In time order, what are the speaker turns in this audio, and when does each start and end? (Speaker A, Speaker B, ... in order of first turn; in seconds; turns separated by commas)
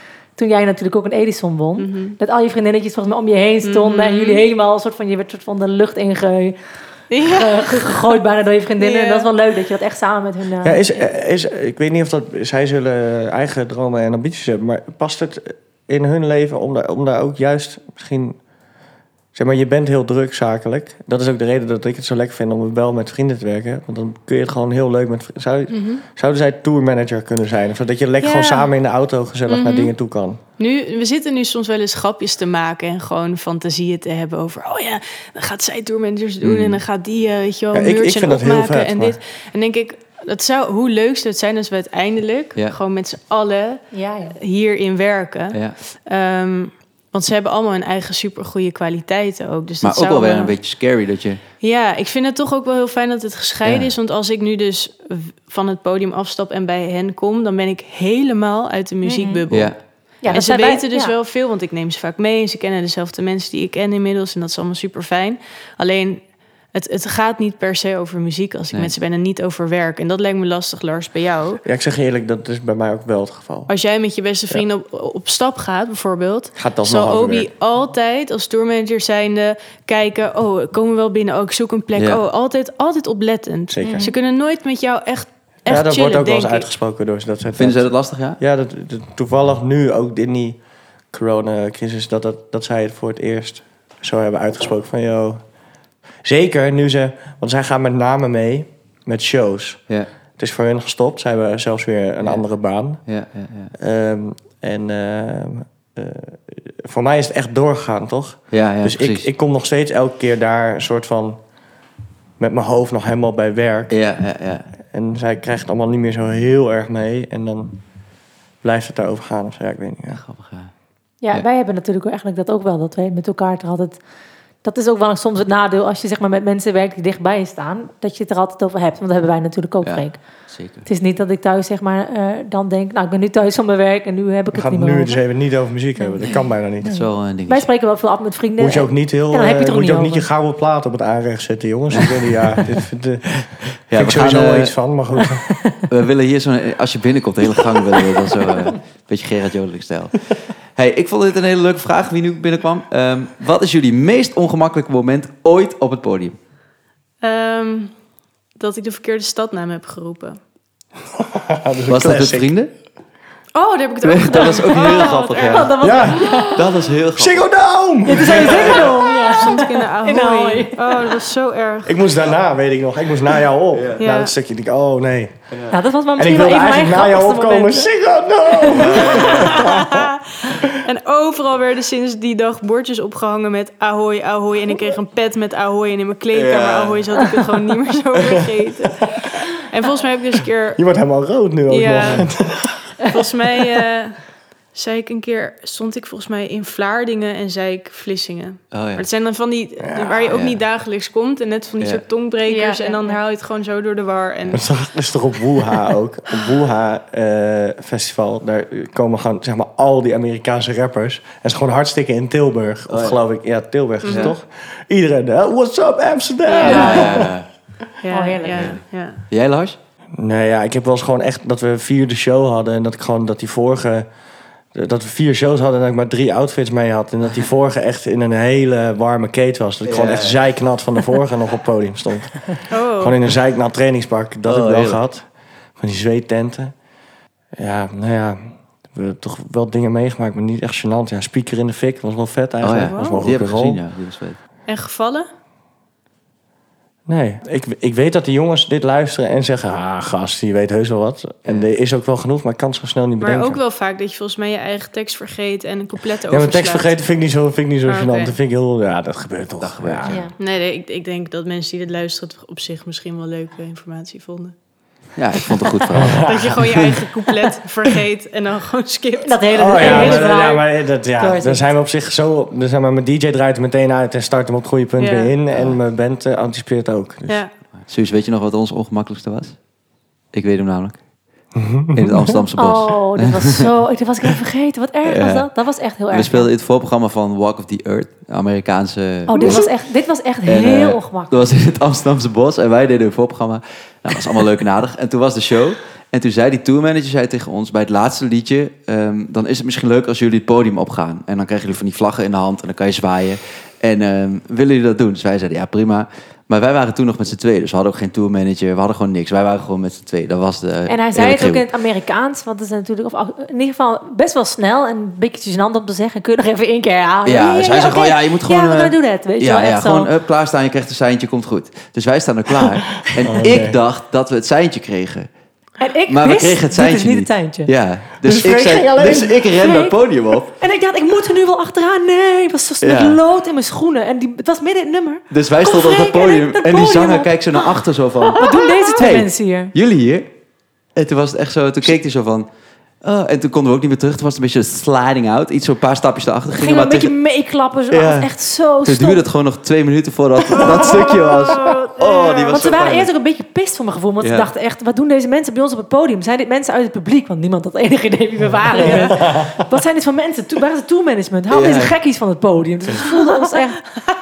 Speaker A: 0.4-6.6, Speaker B: 1.8-2.2, Speaker B: 3.6-4.4, Speaker B: 7.1-8.2, Speaker A: 7.2-10.8, Speaker B: 8.8-9.3, Speaker C: 10.6-18.4, Speaker C: 19.4-30.4, Speaker B: 25.7-26.0, Speaker B: 28.2-28.7, Speaker B: 29.5-29.9, Speaker B: 30.6-50.5, Speaker D: 36.4-36.8, Speaker C: 37.7-39.2, Speaker A: 43.9-44.4, Speaker D: 49.8-51.4, Speaker B: 51.6-71.6, Speaker D: 53.6-53.9, Speaker A: 59.0-59.4, Speaker D: 59.5-59.8, Speaker A: 60.2-61.1, Speaker C: 71.6-73.7, Speaker B: 73.7-86.7, Speaker C: 76.6-77.5, Speaker D: 82.0-82.2, Speaker C: 83.7-84.1, Speaker A: 83.8-84.1, Speaker C: 85.7-90.6, Speaker D: 87.5-88.4, Speaker C: 91.1-95.4, Speaker C: 96.2-99.8, Speaker C: 100.4-103.0, Speaker D: 103.1-103.7, Speaker C: 103.8-111.4, Speaker D: 108.5-109.3, Speaker C: 112.4-113.9, Speaker D: 113.9-114.7, Speaker C: 114.9-117.8, Speaker C: 118.6-120.2, Speaker D: 120.2-120.7, Speaker A: 121.2-124.0, Speaker A: 124.6-130.2, Speaker D: 129.8-130.9, Speaker A: 130.8-135.2, Speaker C: 134.5-137.0, Speaker D: 136.2-137.7, Speaker A: 136.8-140.3, Speaker C: 138.6-145.5, Speaker D: 143.9-144.8, Speaker D: 145.9-156.4, Speaker B: 157.2-157.9, Speaker B: 158.6-160.4, Speaker C: 161.2-162.5, Speaker D: 161.9-162.7, Speaker B: 163.5-166.5, Speaker D: 164.0-165.8, Speaker A: 165.4-166.7, Speaker C: 165.8-166.5, Speaker D: 166.5-167.5, Speaker C: 167.1-169.0, Speaker A: 168.1-171.2, Speaker B: 168.5-172.2, Speaker C: 171.9-175.4, Speaker D: 173.7-174.0, Speaker B: 174.0-174.3, Speaker D: 175.5-175.8, Speaker A: 175.7-177.9, Speaker C: 176.2-180.7, Speaker A: 178.5-179.7, Speaker D: 178.7-179.4, Speaker B: 179.2-190.8, Speaker D: 186.3-187.0, Speaker C: 190.8-193.1, Speaker B: 191.7-192.3, Speaker B: 193.0-194.2, Speaker B: 194.7-204.7, Speaker D: 198.7-199.1, Speaker C: 199.9-200.3, Speaker D: 200.3-200.6, Speaker A: 202.5-203.2, Speaker C: 204.5-217.3, Speaker D: 212.9-213.2, Speaker B: 214.0-214.3, Speaker D: 214.1-214.3, Speaker B: 216.5-217.2, Speaker D: 216.6-217.5, Speaker A: 216.7-217.3, Speaker B: 218.0-219.2, Speaker A: 218.1-218.7, Speaker D: 218.6-219.8, Speaker C: 220.2-224.1, Speaker C: 224.7-235.2, Speaker D: 229.8-230.4, Speaker B: 232.7-233.2, Speaker D: 234.4-235.0, Speaker C: 235.8-236.7, Speaker C: 237.6-243.8, Speaker D: 242.6-244.4, Speaker B: 242.9-243.3, Speaker B: 244.7-245.3, Speaker C: 247.1-253.6, Speaker B: 253.2-257.0, Speaker C: 256.3-260.3, Speaker B: 257.9-258.4, Speaker D: 259.6-260.2, Speaker A: 260.1-260.3, Speaker B: 260.4-264.6, Speaker D: 265.2-267.0, Speaker C: 266.0-266.5, Speaker B: 266.2-270.6, Speaker A: 269.2-271.6, Speaker C: 269.5-277.4, Speaker B: 275.0-275.3, Speaker D: 277.9-279.6, Speaker D: 280.3-281.0, Speaker C: 281.5-282.4, Speaker D: 281.9-283.7, Speaker A: 282.6-286.5, Speaker D: 285.1-285.5, Speaker D: 286.1-289.7, Speaker A: 289.3-291.4, Speaker D: 290.4-311.6, Speaker A: 310.9-320.1, Speaker D: 317.2-325.3, Speaker C: 323.2-323.8, Speaker A: 325.8-327.7, Speaker D: 326.1-330.5, Speaker C: 328.2-329.4, Speaker A: 329.6-330.0, Speaker A: 330.5-339.7, Speaker D: 332.8-333.2, Speaker D: 335.3-338.4, Speaker B: 338.5-338.9, Speaker D: 339.0-340.3, Speaker D: 341.0-342.5, Speaker D: 343.0-347.2, Speaker A: 346.5-349.2, Speaker D: 347.9-348.3, Speaker D: 348.8-353.1, Speaker B: 351.4-352.8, Speaker A: 352.5-363.9, Speaker D: 354.2-354.5, Speaker C: 358.7-359.6, Speaker D: 361.5-362.0, Speaker B: 363.0-363.6